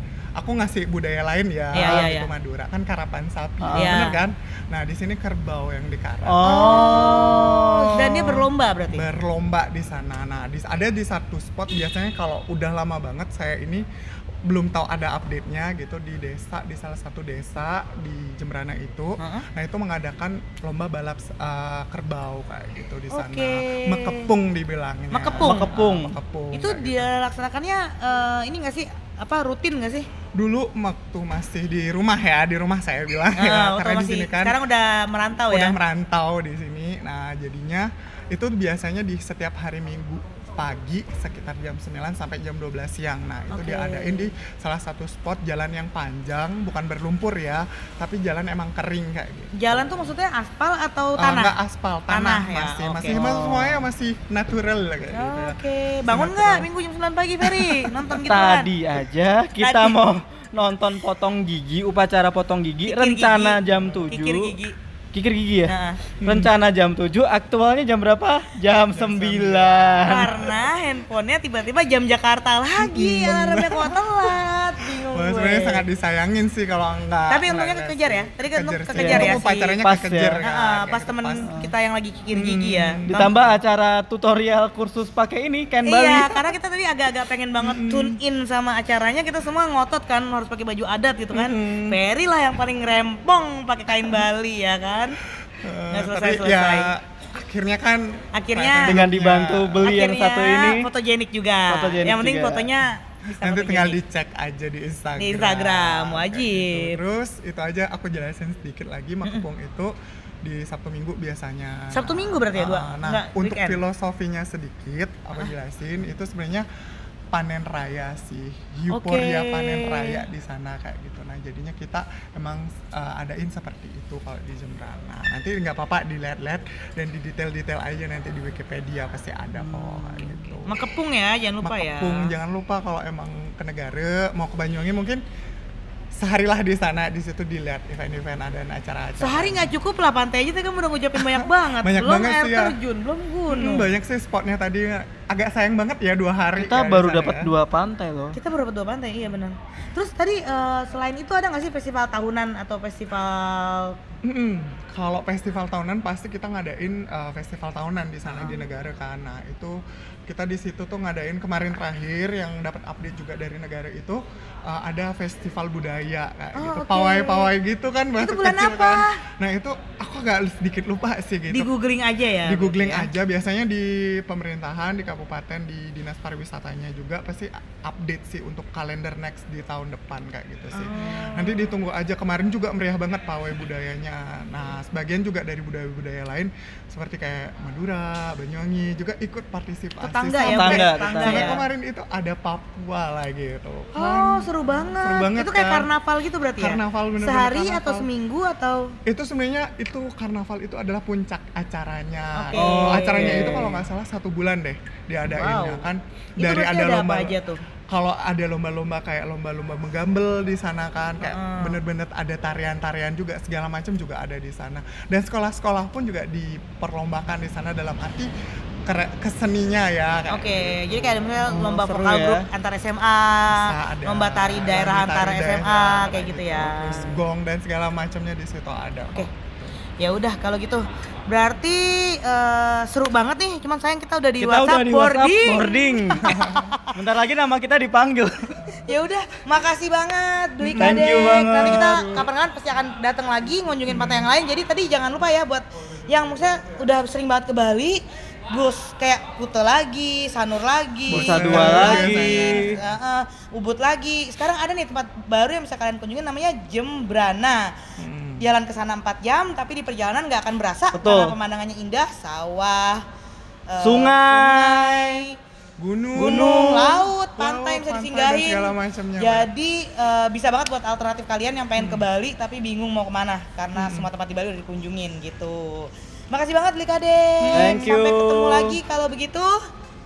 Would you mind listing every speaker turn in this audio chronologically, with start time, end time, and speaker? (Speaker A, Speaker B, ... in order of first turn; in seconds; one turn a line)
Speaker A: 0.4-13.8
Speaker B: 1.7-2.3
Speaker C: 3.6-3.9
Speaker B: 3.7-4.2
Speaker C: 6.2-7.5
Speaker B: 6.4-9.1
Speaker A: 14.4-27.1
Speaker B: 19.2-19.4
Speaker B: 23.1-24.3
Speaker B: 25.1-25.7
Speaker C: 25.4-26.1
Speaker B: 26.5-30.1
Speaker A: 30.3-34.6
Speaker B: 33.3-35.8
Speaker A: 35.5-50.1
Speaker B: 43.5-44.3
Speaker B: 49.5-51.5
Speaker A: 51.2-56.7
Speaker B: 52.1-53.2
Speaker C: 53.1-53.9
Speaker B: 55.1-58.7
Speaker A: 57.4-57.9
Speaker C: 58.3-64.6
Speaker B: 59.6-60.0
Speaker B: 62.8-64.8
Speaker A: 63.7-64.1
Speaker C: 65.1-70.3
Speaker B: 65.7-66.0
Speaker A: 66.2-66.5
Speaker A: 68.9-70.5
Speaker B: 70.0-75.8
Speaker A: 72.8-74.3
Speaker A: 74.8-81.5
Speaker B: 77.3-79.7
Speaker C: 79.0-80.4
Speaker B: 80.4-83.3
Speaker A: 82.3-83.6
Speaker C: 83.1-86.4
Speaker B: 85.8-95.2
Speaker A: 87.6-88.2
Speaker A: 91.3-92.0
Speaker A: 95.4-100.0
Speaker B: 95.9-96.9
Speaker B: 98.3-99.0
Speaker C: 98.9-100.9
Speaker B: 99.8-104.0
Speaker C: 101.7-102.7
Speaker A: 103.4-116.7
Speaker B: 105.2-107.0
Speaker B: 111.9-113.8
Speaker A: 117.3-130.8
Speaker B: 118.9-120.2
Speaker C: 129.6-130.4
Speaker B: 130.6-132.3
Speaker A: 131.6-135.2
Speaker A: 136.1-139.7
Speaker B: 139.2-143.9
Speaker A: 141.2-142.8
Speaker A: 143.5-147.5
Speaker C: 146.6-148.4
Speaker B: 148.3-154.0
Speaker A: 154.2-171.7
Speaker B: 166.5-167.5
Speaker B: 168.2-169.2
Speaker B: 171.5-173.1
Speaker A: 172.4-195.9
Speaker B: 180.7-181.7
Speaker B: 190.0-191.6
Speaker C: 190.4-191.5
Speaker B: 193.9-198.9
Speaker A: 196.6-198.1
Speaker A: 199.1-207.3
Speaker B: 202.3-203.6
Speaker C: 202.6-203.8
Speaker B: 205.3-205.8
Speaker B: 206.4-207.6
Speaker A: 207.9-218.3
Speaker B: 211.2-211.8
Speaker A: 218.8-221.2
Speaker B: 220.3-227.2
Speaker C: 221.5-222.5
Speaker A: 223.5-229.8
Speaker B: 230.0-236.9
Speaker C: 234.4-238.6
Speaker A: 236.2-236.8
Speaker B: 238.8-257.7
Speaker A: 240.6-241.0
Speaker C: 240.8-242.3
Speaker A: 243.9-244.3
Speaker A: 251.1-252.8
Speaker C: 251.1-252.8
Speaker A: 258.0-258.5
Speaker B: 258.4-263.0
Speaker C: 260.9-261.3
Speaker B: 263.7-265.4
Speaker C: 263.8-265.2
Speaker A: 265.8-266.8
Speaker B: 266.1-279.6
Speaker C: 266.2-267.1
Speaker A: 267.3-269.5
Speaker A: 271.8-272.1
Speaker A: 273.7-274.1
Speaker A: 277.4-277.9
Speaker C: 277.5-278.8